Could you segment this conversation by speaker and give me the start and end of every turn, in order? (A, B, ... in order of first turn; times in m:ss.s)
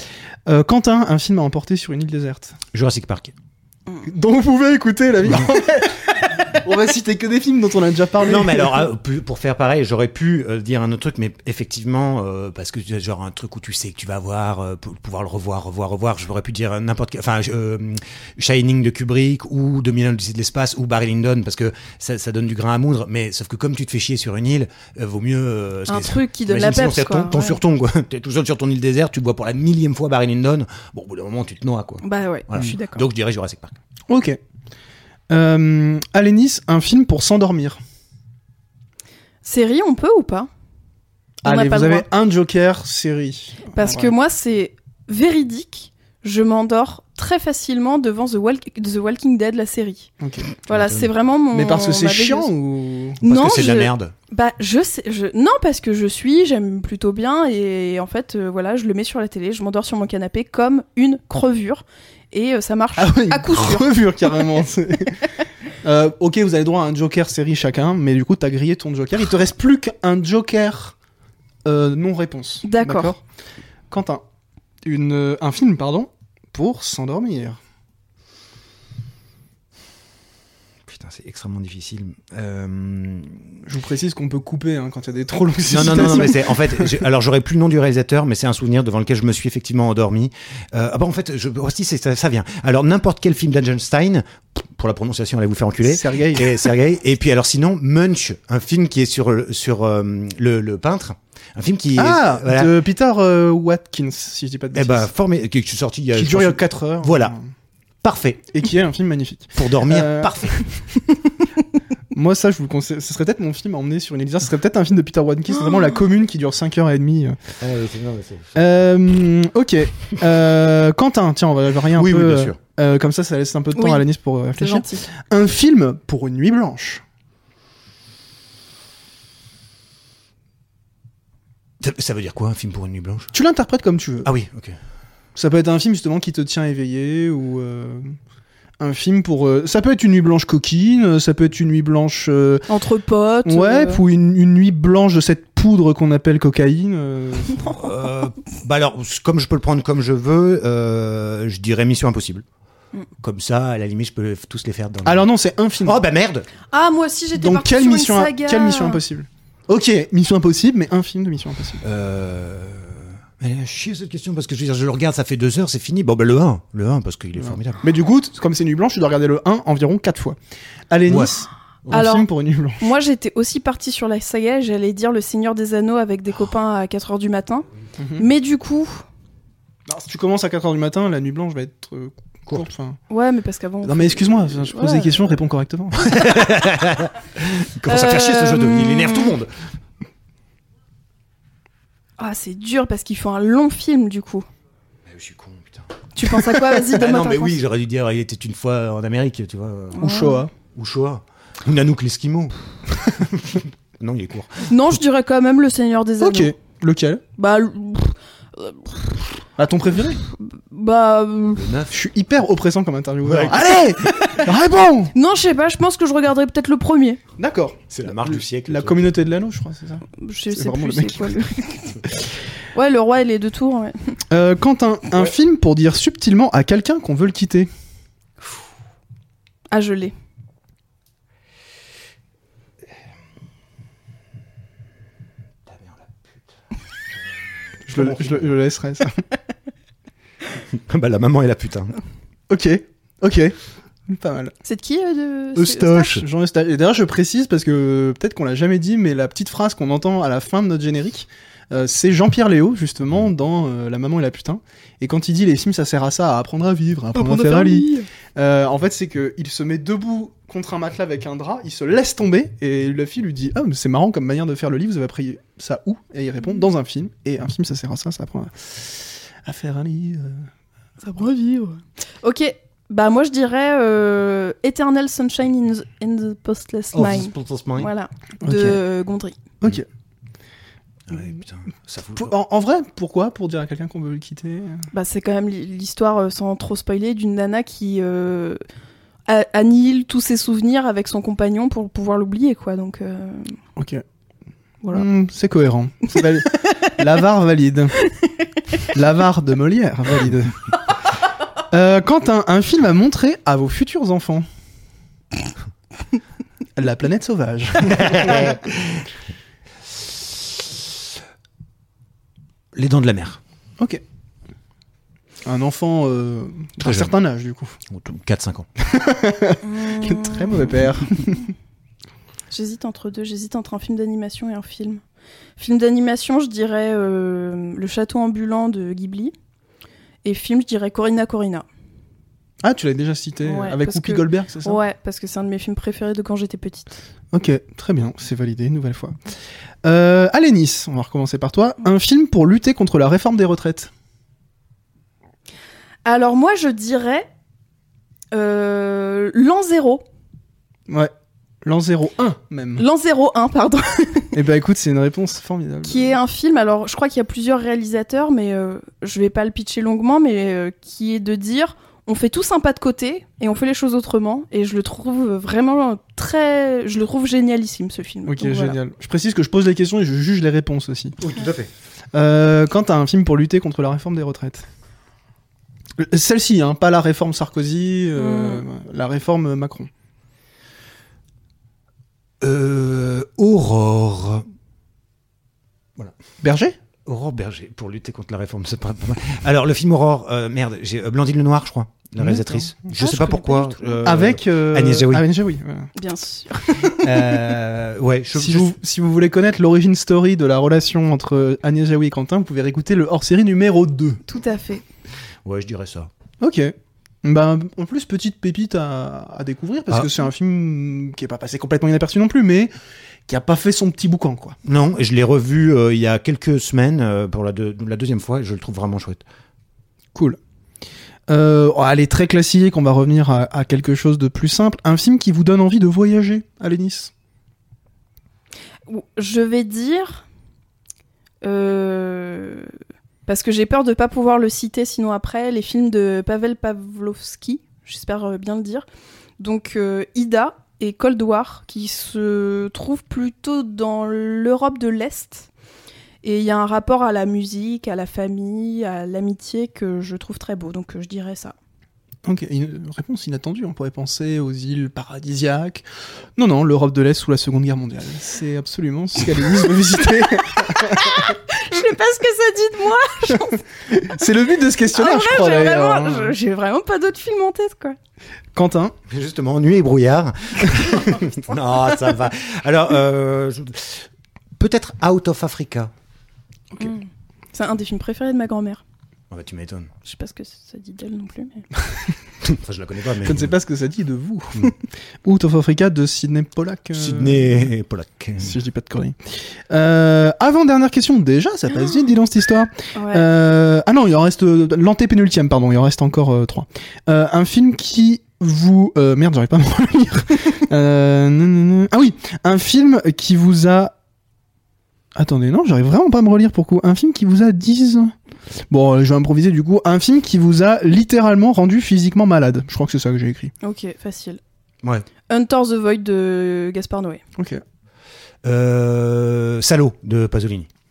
0:00.5-0:02.6 A
0:02.7-0:03.3 B
0:04.0-0:08.9 A
0:08.2-0:33.7 B
0:25.9-0:27.6 C
0:32.0-0:33.1 C
0:34.1-0:34.4 A
0:35.3-0:37.8 A
0:39.4-0:40.5 C
0:41.4-0:44.1 A
0:41.5-0:42.1 C
0:43.7-0:50.1 C
0:50.2-0:50.5 A
0:50.7-0:52.5 C
0:50.7-0:51.1 B
0:51.5-0:53.2 A
0:53.2-1:04.6 C
0:53.2-0:54.1 B
1:03.0-1:05.2 A
1:05.8-1:11.0 A
1:11.6-1:13.2 A
1:12.6-1:13.1 C
1:13.9-1:14.2 A
1:14.9-1:17.6 A
1:20.9-1:23.6 B
1:23.7-1:27.0 A
1:25.7-1:42.7 B
1:35.8-1:36.7 A
1:42.0-1:45.1 A
1:44.7-1:47.4 B
1:46.1-1:47.5 A
1:48.0-1:48.4 B
1:48.5-1:50.4 A
1:49.5-1:50.6 B
1:52.1-1:57.4 A
1:55.6-1:56.0 C
1:57.6-1:58.6 B
1:58.5-2:07.0 A
2:01.9-2:02.6 B
2:03.8-2:05.1 C
2:11.8-2:13.3 B
2:13.3-2:14.3 A
2:14.2-2:14.8 B
2:15.4-2:18.1 A
2:18.8-2:22.7 A
2:22.7-2:24.0 C
2:23.4-2:27.8 A
2:27.8-2:32.4 B
2:33.2-2:35.3 B
2:35.0-2:36.0 A
2:35.8-2:36.5 B
2:36.7-2:39.0 C
2:37.3-2:41.8 A
2:41.8-2:47.8 B
2:47.4-2:50.4 A
2:50.9-2:52.9 A
2:51.9-2:52.3 C
2:52.8-2:57.7 C
2:58.0-2:58.3 A
2:58.2-2:59.0 C
2:59.9-3:03.0 A
3:03.1-3:05.2 C
3:03.8-3:06.2 A
3:06.0-3:09.5 B
3:07.9-3:09.4 C
3:12.2-3:14.5 C
3:15.1-3:15.9 B
3:16.2-3:17.6 C
3:16.8-3:20.0 B
3:19.9-3:20.4 C
3:20.0-3:20.5 A
3:20.7-3:22.5 B
3:23.1-3:24.7 B
3:24.7-3:26.5 C
3:26.2-3:27.2 A
3:27.4-3:29.3 C
3:29.6-3:30.2 A
3:30.1-3:31.7 C
3:31.6-3:31.9 B
3:31.9-3:35.1 A
3:33.2-3:33.7 B
3:34.0-3:34.4 C
3:35.1-3:37.2 C
3:37.4-3:41.4 A
3:37.9-3:39.1 B
3:40.2-3:42.1 C
3:42.7-3:44.1 C
3:44.3-3:47.7 A
3:49.7-3:50.1 C
3:55.7-3:56.4 B
3:57.8-3:58.5 B
3:57.9-3:59.2 A
4:00.7-4:02.0 B
4:02.5-4:03.5 A
4:04.1-4:04.5 A
4:04.6-4:06.2 C
4:05.6-4:30.5 A
4:17.2-4:18.1 C
4:31.0-4:39.4 C
4:36.9-4:37.9 B
4:38.4-4:38.8 A
4:41.1-4:42.3 B
4:42.2-4:44.9 A
4:44.9-4:48.6 C
4:49.3-4:53.6 C
4:53.8-4:54.0 A
4:54.9-4:58.0 A
4:58.0-4:58.3 C
4:58.9-5:00.6 A
5:01.7-5:04.4 A
5:06.8-5:08.6 A
5:07.8-5:09.1 B
5:12.7-5:13.4 B
5:15.4-5:17.8 A
5:16.8-5:17.1 B
5:17.9-5:18.7 B
5:18.8-5:21.5 A
5:19.6-5:20.9 C
5:22.5-5:25.0 C
5:25.6-5:29.3 C
5:30.2-5:31.7 C
5:32.6-5:34.8 A
5:33.4-5:37.0 C
5:37.3-5:39.2 A
5:39.8-5:43.9 A
5:46.0-5:47.3 C
5:48.3-5:50.0 C
5:51.6-5:52.8 A
5:52.8-5:54.4 C
5:54.3-5:56.2 A
5:55.8-6:08.8 C
6:08.3-6:11.2 A
6:11.2-6:11.7 B
6:12.1-6:14.7 A
6:16.0-6:19.9 A
6:18.2-6:18.7 C
6:22.4-6:24.4 B
6:26.4-6:26.8 A
6:27.1-6:35.2 B
6:32.2-6:32.7 A
6:32.9-6:34.2 C
6:34.0-6:35.9 A
6:36.0-6:37.5 C
6:37.0-6:38.7 B
6:38.3-6:44.2 A
6:44.3-6:44.8 C
6:45.4-6:46.1 B
6:46.4-6:52.7 A
6:53.3-6:54.6 A
6:54.6-6:59.2 B
7:01.3-7:07.1 A
7:08.9-7:10.2 C
7:11.4-7:12.7 C
7:13.3-7:18.8 C
7:19.4-7:25.5 C
7:26.2-7:31.6 C
7:32.3-7:35.8 A
7:36.4-7:41.3 A
7:40.6-7:43.6 C
7:43.8-7:46.4 A
7:44.9-7:48.0 C
7:48.6-7:48.9 A
7:49.1-7:55.9 B
7:56.8-7:58.8 C
7:59.3-7:59.9 B
8:00.0-8:01.6 C
8:02.4-8:03.5 B
8:03.2-8:07.7 A
8:06.9-8:08.6 B
8:08.4-8:24.0 A
8:13.0-8:13.3 C
8:25.2-8:28.1 A
8:28.7-8:33.5 A
8:33.6-8:34.4 C
8:35.3-8:37.2 C
8:37.4-8:37.6 A
8:38.4-8:40.7 B